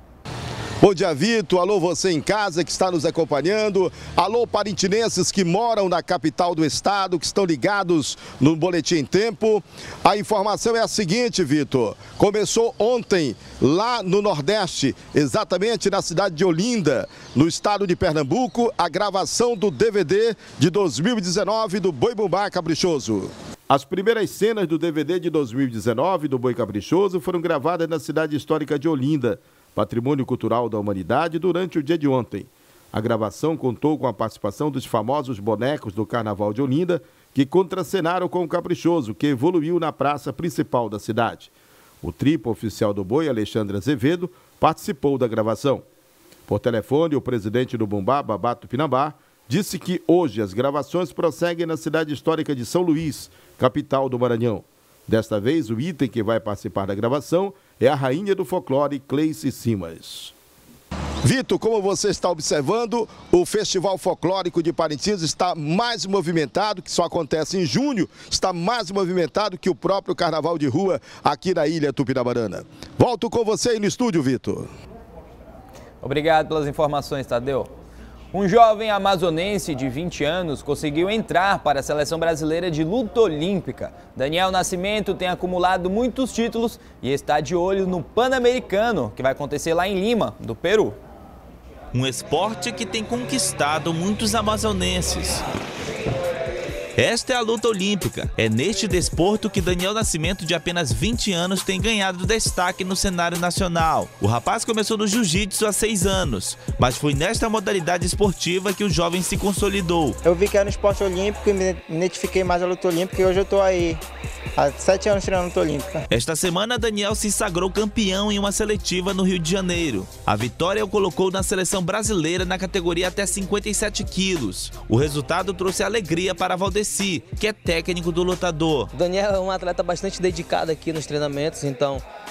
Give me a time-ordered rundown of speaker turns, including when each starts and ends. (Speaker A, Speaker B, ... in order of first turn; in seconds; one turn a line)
Speaker A: 0.8-41.5
Speaker A: 42.0-45.8
Speaker A: 46.5-60.3
Speaker A: 61.2-74.7
Speaker B: 76.0-77.7
Speaker B: 78.3-91.0
Speaker C: 91.9-95.4
Speaker C: 97.0-110.2
Speaker D: 110.2-114.0
Speaker D: 114.5-116.0
Speaker C: 116.1-128.9
Speaker E: 128.9-132.0